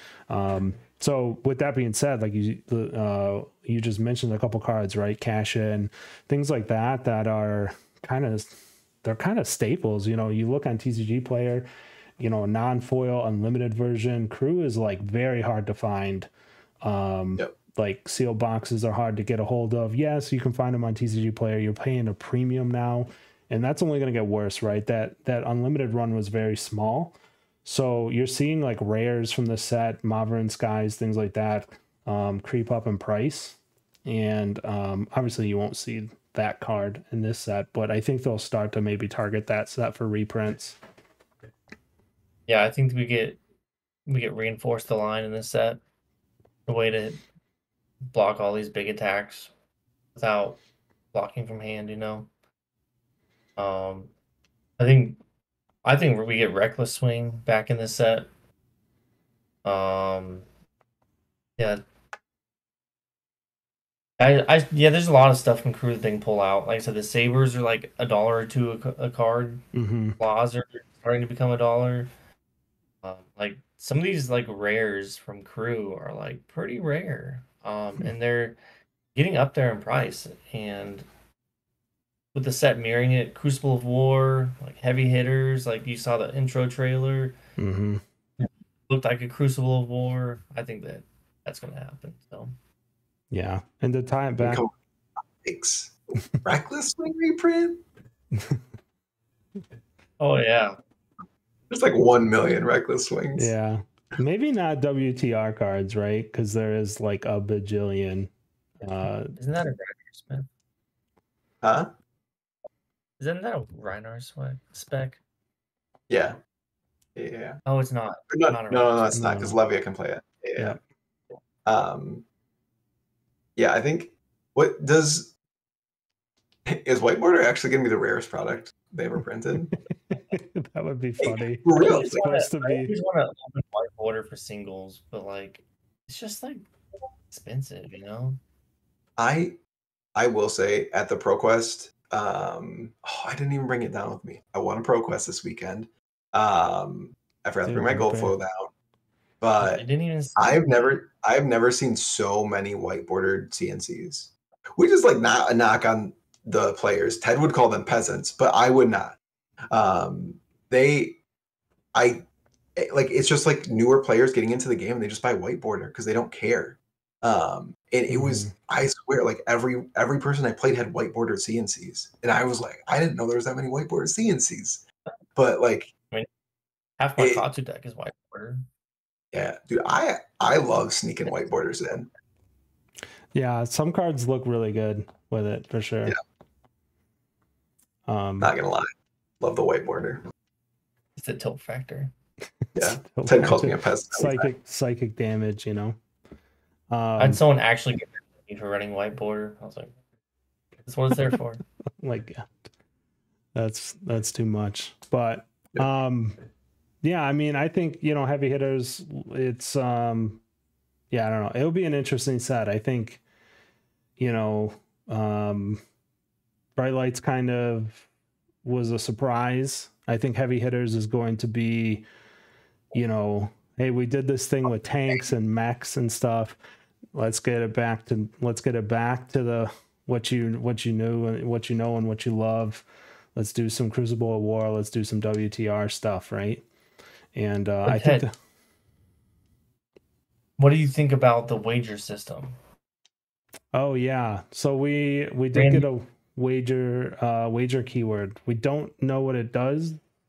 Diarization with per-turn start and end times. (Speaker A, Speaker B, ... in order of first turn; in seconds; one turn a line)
Speaker A: 0.3-11.7
Speaker A: 12.2-16.3
Speaker A: 16.8-27.1
Speaker A: 27.6-40.8
Speaker B: 42.5-43.4
Speaker B: 44.1-45.8
Speaker B: 46.7-47.2
Speaker B: 48.1-49.5
Speaker B: 50.1-50.6
Speaker B: 51.1-52.3
Speaker B: 53.6-54.1
Speaker B: 54.8-55.2
Speaker B: 55.8-58.3
Speaker B: 59.6-60.5
Speaker B: 64.2-69.7
Speaker A: 69.7-70.2
Speaker B: 70.2-72.1
Speaker B: 73.0-78.6
Speaker B: 79.2-81.1
Speaker B: 82.3-87.4
Speaker A: 87.6-88.0
Speaker B: 88.4-92.5
Speaker A: 93.3-94.6
Speaker C: 94.4-94.7
Speaker C: 95.4-97.8
Speaker B: 100.2-100.8
Speaker C: 101.7-103.5
Speaker A: 103.4-108.3
Speaker A: 108.8-109.3
Speaker B: 109.4-110.5
Speaker C: 111.6-111.9
Speaker B: 113.2-115.2
Speaker C: 116.1-116.4
Speaker C: 117.2-117.6
Speaker B: 117.7-119.2
Speaker C: 118.3-120.8
Speaker A: 119.1-119.6
Speaker C: 121.7-122.2
Speaker C: 123.6-125.3
Speaker C: 126.7-129.7
Speaker A: 130.1-132.9
Speaker C: 131.2-132.2
Speaker B: 131.8-136.6
Speaker B: 137.3-138.4
Speaker C: 139.2-139.6
Speaker C: 140.2-148.7
Speaker A: 147.7-148.3
Speaker C: 149.4-149.8
Speaker B: 149.6-151.0
Speaker C: 150.4-159.2
Speaker C: 159.7-161.2
Speaker C: 161.9-162.2
Speaker C: 162.8-174.8
Speaker A: 168.1-168.5
Speaker C: 175.4-175.9
Speaker B: 177.0-178.7
Speaker C: 177.2-177.4
Speaker C: 179.3-182.1
Speaker A: 183.3-186.2
Speaker A: 188.1-188.5
Speaker C: 188.4-190.2
Speaker B: 191.2-192.1
Speaker A: 192.8-196.0
Speaker C: 192.8-194.5
Speaker A: 196.9-197.4
Speaker B: 197.2-199.9
Speaker B: 200.9-201.6
Speaker A: 202.0-202.5
Speaker A: 203.6-206.4
Speaker A: 207.0-210.4
Speaker A: 211.1-213.2
Speaker A: 214.2-215.8
Speaker A: 216.8-218.1
Speaker A: 218.6-222.0
Speaker A: 222.9-226.6
Speaker A: 227.1-232.8
Speaker A: 233.3-236.7
Speaker A: 237.3-238.3
Speaker B: 237.9-238.2
Speaker B: 240.6-242.6
Speaker A: 243.7-250.0
Speaker B: 245.5-245.9